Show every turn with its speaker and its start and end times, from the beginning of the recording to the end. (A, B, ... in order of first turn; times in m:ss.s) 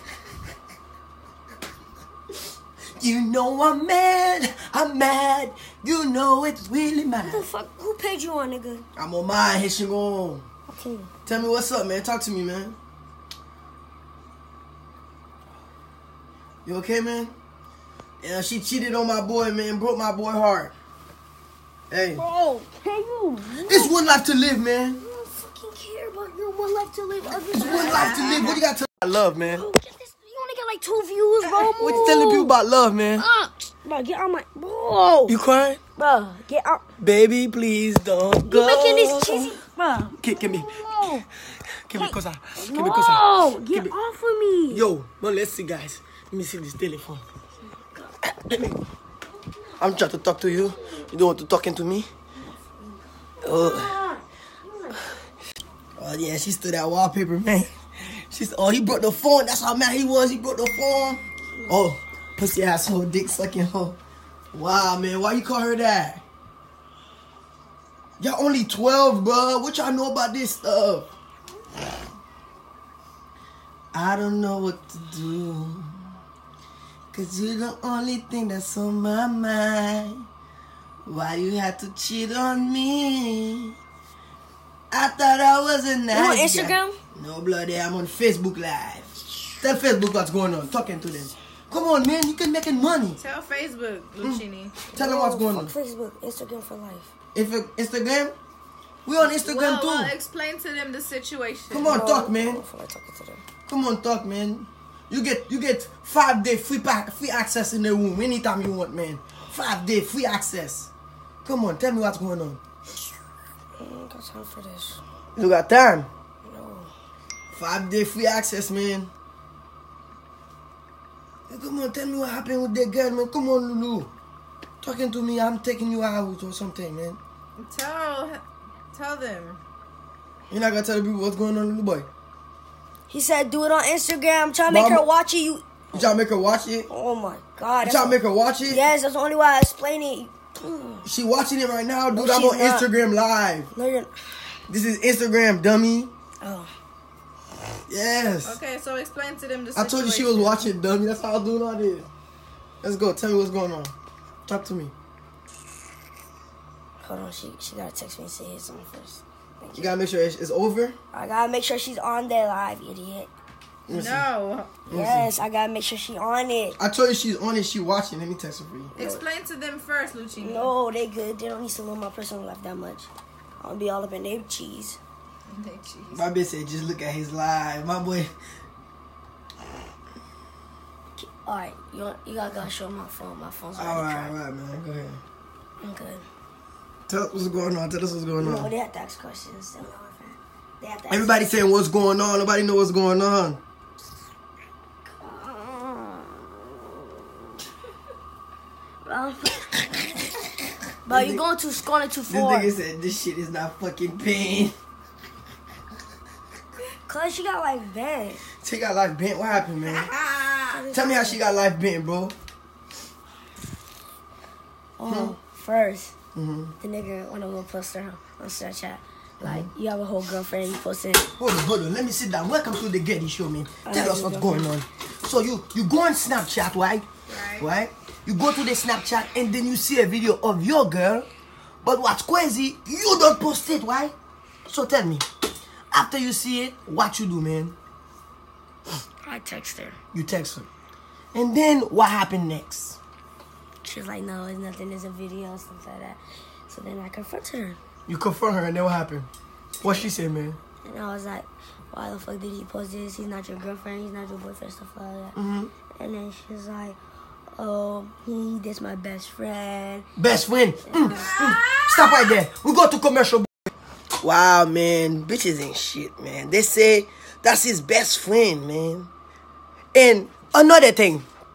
0:03.0-0:07.5 A
0:07.2-0:08.8 B
0:09.0-0:10.4 A
0:10.7-0:11.1 B
0:11.2-0:12.8 A
0:16.6-0:17.3 A
0:18.2-0:20.7 A
0:21.9-0:22.2 A
0:22.2-0:24.0 B
0:23.6-0:25.0 A
0:25.0-0:28.6 B
0:27.5-0:29.6 A
0:27.5-0:28.6 C
0:29.5-0:32.5 B
0:31.6-0:32.0 C
0:31.8-0:33.2 A
0:33.2-0:35.3 B
0:35.3-0:35.8 A
0:36.0-0:36.8 B
0:37.0-0:39.6 A
0:38.4-0:41.2 B
0:40.2-0:40.8 A
0:41.5-0:43.9 A
0:42.0-0:44.8 B
0:44.7-0:47.2 A
0:47.8-0:48.1 B
0:48.2-0:48.8 A
0:49.4-0:51.1 B
0:49.8-0:52.1 A
0:52.6-0:55.1 B
0:53.4-0:54.0 A
0:56.0-1:04.0 A
1:04.5-1:06.2 A
1:08.2-1:11.1 A
1:13.9-1:16.0 A
1:17.1-1:20.2 A
1:21.0-1:23.8 A
1:24.9-1:33.2 A
1:26.1-1:27.0 B
1:33.2-1:34.8 C
1:34.9-1:37.1 B
1:34.9-1:35.7 A
1:37.3-1:38.3 A
1:39.0-1:40.1 A
1:39.2-1:42.0 C
1:41.7-1:42.6 A
1:41.8-1:43.4 B
1:43.7-1:50.9 A
1:51.4-1:52.6 A
1:53.7-1:55.0 B
1:55.4-1:56.1 A
1:56.4-1:56.9 B
1:57.5-1:59.1 A
2:01.5-2:04.1 A
2:04.8-2:07.2 A
2:07.6-2:08.4 C
2:08.9-2:09.6 C
2:10.5-2:12.1 A
2:13.1-2:15.7 B
2:14.7-2:15.0 A
2:15.9-2:16.9 A
2:16.9-2:21.0 B
2:17.8-2:18.8 A
2:21.0-2:23.7 A
2:22.1-2:22.9 B
2:23.7-2:24.1 B
2:24.7-2:26.1 A
2:26.4-2:26.7 B
2:27.9-2:28.6 A
2:28.4-2:30.6 C
2:29.8-2:32.1 A
2:32.8-2:33.9 A
2:34.4-2:34.9 A
2:37.0-2:39.9 B
2:39.7-2:41.0 A
2:41.1-2:43.3 B
2:43.9-2:44.2 A
2:43.9-2:44.8 C
2:44.9-2:45.3 A
2:44.9-2:46.8 B
2:46.8-2:48.9 A
2:48.9-2:49.2 B
2:49.0-2:50.7 C
2:50.4-2:55.0 B
2:55.5-2:56.3 C
2:56.1-2:58.3 A
3:01.2-3:04.3 B
3:03.8-3:05.2 A
3:05.8-3:06.2 B
3:07.1-3:08.7 A
3:08.4-3:11.6 B
3:11.1-3:13.6 A
3:15.2-3:16.7 B
3:19.0-3:20.0 B
3:21.0-3:22.7 B
3:21.1-3:21.4 A
3:22.3-3:24.7 A
3:26.8-3:28.4 B
3:28.6-3:30.1 A
3:29.8-3:30.8 C
3:30.7-3:31.4 B
3:30.9-3:32.3 A
3:35.0-3:36.1 B
3:35.1-3:35.4 A
3:36.3-3:36.7 A
3:36.8-3:41.3 B
3:39.4-3:39.7 A
3:41.4-3:47.0 A
3:43.8-3:44.7 B
3:47.3-3:47.7 C
3:47.6-3:51.3 A
3:51.8-3:54.1 A
3:54.7-3:55.2 A
3:55.9-3:57.8 A
3:59.2-4:00.0 B
4:00.1-4:00.7 A
4:01.3-4:03.0 A
4:03.8-4:07.8 B
4:08.1-4:09.3 A
4:09.8-4:10.6 A
4:10.8-4:15.4 B
4:15.4-4:15.7 A
4:16.0-4:17.0 B
4:17.6-4:20.1 B
4:20.2-4:23.5 A
4:20.9-4:21.2 B
4:21.0-4:22.4 C
4:24.2-4:29.1 A
4:29.9-4:31.2 A